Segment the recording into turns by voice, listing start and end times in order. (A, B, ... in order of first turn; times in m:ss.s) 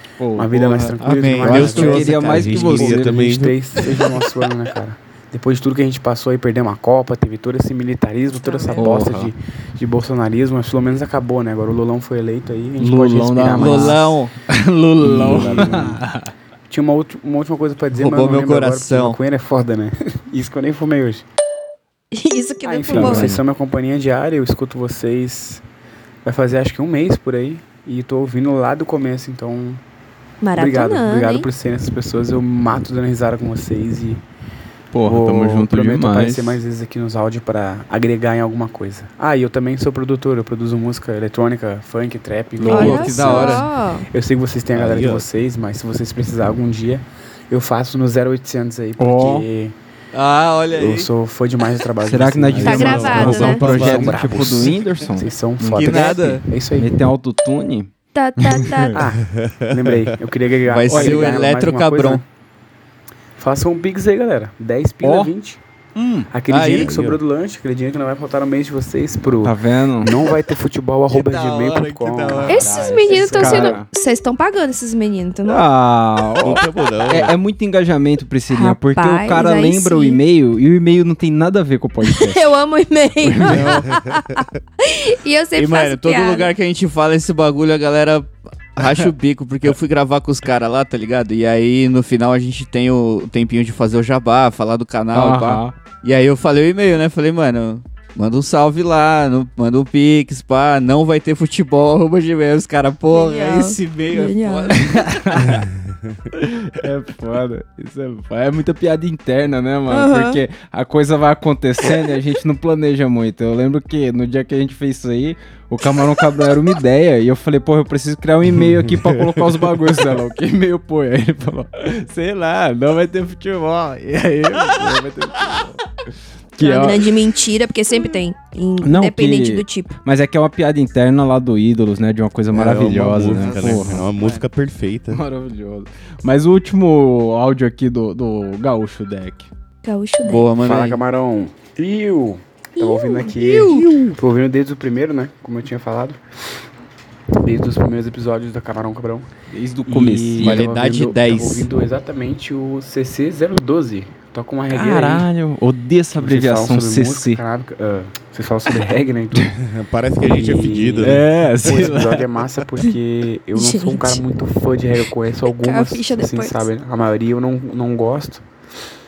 0:00.2-0:03.3 A
0:00.4-0:14.2 B
0:01.0-0:02.5 C
0:01.5-0:03.6 D
0:08.7-0:09.3 A
0:12.8-0:16.3 A
0:13.5-0:14.3 C
0:15.0-0:16.0 B
0:15.3-0:15.6 C
0:16.7-0:21.3 B
0:17.9-0:19.2 C
0:22.1-0:23.4 E
0:22.6-0:25.6 B
0:26.2-0:29.8 B
0:30.4-0:31.5 E
0:30.6-0:34.2 B
0:34.9-0:36.6 A
0:35.1-0:49.8 B
0:42.6-0:43.6 A
0:42.7-0:44.1 E
0:42.7-0:43.7 C
0:44.7-0:45.3 D
0:49.0-0:49.5 A
0:50.1-0:51.1 C
0:50.7-0:57.0 B
0:52.0-0:59.0 A
0:52.6-0:55.0 D
0:52.6-0:53.7 E
0:55.7-0:56.4 C
0:58.1-0:59.0 E
0:59.0-1:02.2 B
0:59.3-1:00.1 D
1:00.7-1:02.2 C
1:00.9-1:01.4 A
1:03.4-1:05.6 B
1:05.0-1:05.3 A
1:06.0-1:06.3 A
1:06.3-1:13.8 B
1:06.5-1:07.0 C
1:06.6-1:07.2 D
1:09.4-1:10.1 A
1:11.1-1:13.2 C
1:12.4-1:15.6 E
1:12.7-1:13.9 A
1:15.5-1:22.4 A
1:16.4-1:17.4 D
1:18.5-1:20.2 E
1:22.0-1:26.5 E
1:23.2-1:23.8 A
1:23.5-1:24.3 D
1:25.6-1:45.1 C
1:35.1-1:35.7 A
1:43.1-1:44.8 E
1:44.8-1:45.6 A
1:45.4-1:46.2 D
1:46.4-2:05.8 A
1:49.9-1:50.4 E
1:58.4-2:00.0 D
2:06.6-2:07.1 A
2:06.6-2:10.0 E
2:08.8-2:14.0 A
2:12.5-2:15.2 D
2:13.2-2:14.5 C
2:15.1-2:19.5 A
2:19.8-2:20.5 E
2:20.2-2:21.0 C
2:20.6-2:26.2 B
2:22.8-2:24.0 E
2:23.7-2:24.1 D
2:27.4-2:29.3 B
2:29.5-2:30.7 A
2:29.9-2:35.3 B
2:30.4-2:31.7 C
2:34.7-2:37.4 A
2:36.2-2:39.6 B
2:39.6-2:42.0 D
2:40.2-2:48.4 B
2:41.0-2:42.2 A
2:43.6-2:44.2 E
2:45.5-2:46.7 E